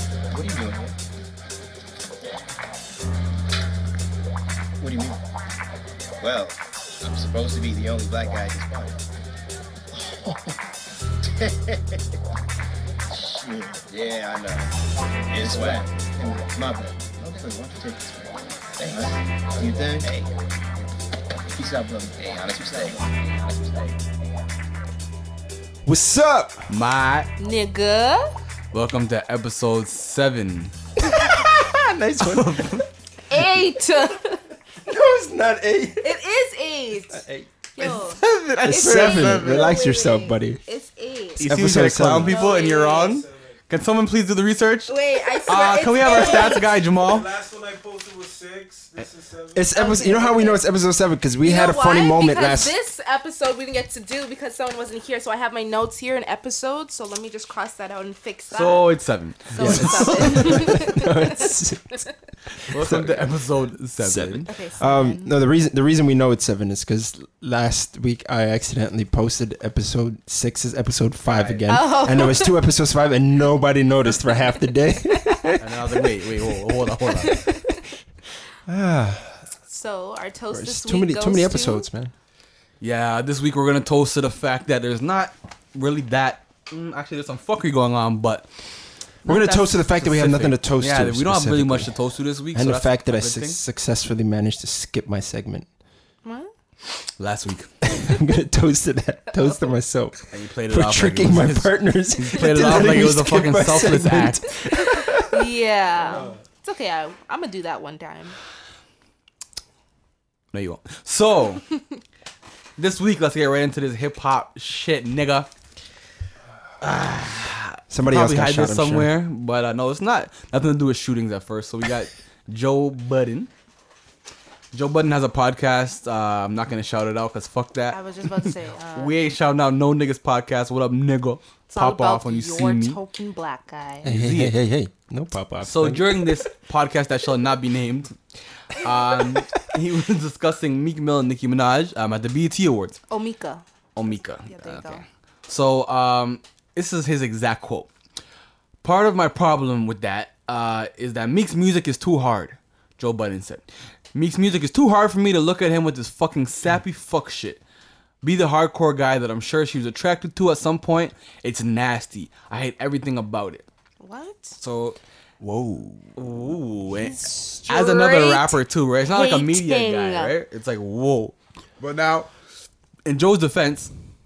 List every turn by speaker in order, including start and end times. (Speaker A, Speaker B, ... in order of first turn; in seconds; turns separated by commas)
Speaker A: 0.3-1.0, Speaker A: 4.8-5.2, Speaker A: 6.2-9.0, Speaker A: 9.9-10.5, Speaker A: 11.2-12.2, Speaker A: 13.1-14.7, Speaker A: 15.3-20.9, Speaker B: 15.4-15.8, Speaker B: 19.6-20.1, Speaker A: 21.4-24.5, Speaker B: 25.8-26.7, Speaker C: 26.7-27.3, Speaker D: 27.4-28.3, Speaker C: 28.7-30.7, Speaker B: 31.0-33.6, Speaker C: 32.2-32.9, Speaker D: 33.3-34.4, Speaker B: 34.8-36.1, Speaker D: 36.0-37.2, Speaker B: 37.1-37.5, Speaker D: 37.8-41.5, Speaker C: 37.8-39.7, Speaker B: 38.6-40.6, Speaker C: 41.4-45.0, Speaker B: 41.4-42.4, Speaker D: 42.1-43.2, Speaker D: 44.9-46.7, Speaker C: 45.5-47.4, Speaker E: 47.2-49.5, Speaker B: 49.5-52.7, Speaker D: 49.7-50.6, Speaker D: 51.4-58.9, Speaker C: 58.5-60.9, Speaker D: 59.5-62.1, Speaker B: 59.6-62.0, Speaker B: 62.6-63.3, Speaker C: 62.7-64.5, Speaker B: 64.0-75.9, Speaker D: 64.5-65.3, Speaker C: 71.2-71.7, Speaker D: 71.7-72.6, Speaker C: 75.6-77.5, Speaker D: 77.1-77.8, Speaker B: 78.7-79.4, Speaker D: 79.7-81.9, Speaker B: 80.5-82.1, Speaker C: 82.8-88.5, Speaker C: 89.2-93.6, Speaker B: 89.2-91.9, Speaker B: 92.5-95.7, Speaker D: 96.2-96.5, Speaker C: 97.2-97.9, Speaker B: 97.9-100.2, Speaker C: 100.3-104.4, Speaker B: 100.7-106.3, Speaker D: 104.8-108.4, Speaker C: 110.5-111.6, Speaker C: 112.8-115.5, Speaker C: 116.8-123.5, Speaker B: 117.9-119.1, Speaker C: 124.7-133.0, Speaker D: 127.9-129.2, Speaker D: 131.7-134.1, Speaker B: 134.0-136.5, Speaker C: 134.0-134.6, Speaker C: 135.6-138.2, Speaker C: 138.7-143.0, Speaker D: 143.1-143.6, Speaker C: 143.9-147.9, Speaker D: 144.5-145.0, Speaker C: 148.8-157.6, Speaker C: 158.2-163.7, Speaker D: 164.0-164.6, Speaker C: 164.6-172.3, Speaker D: 167.0-170.3, Speaker C: 173.0-173.9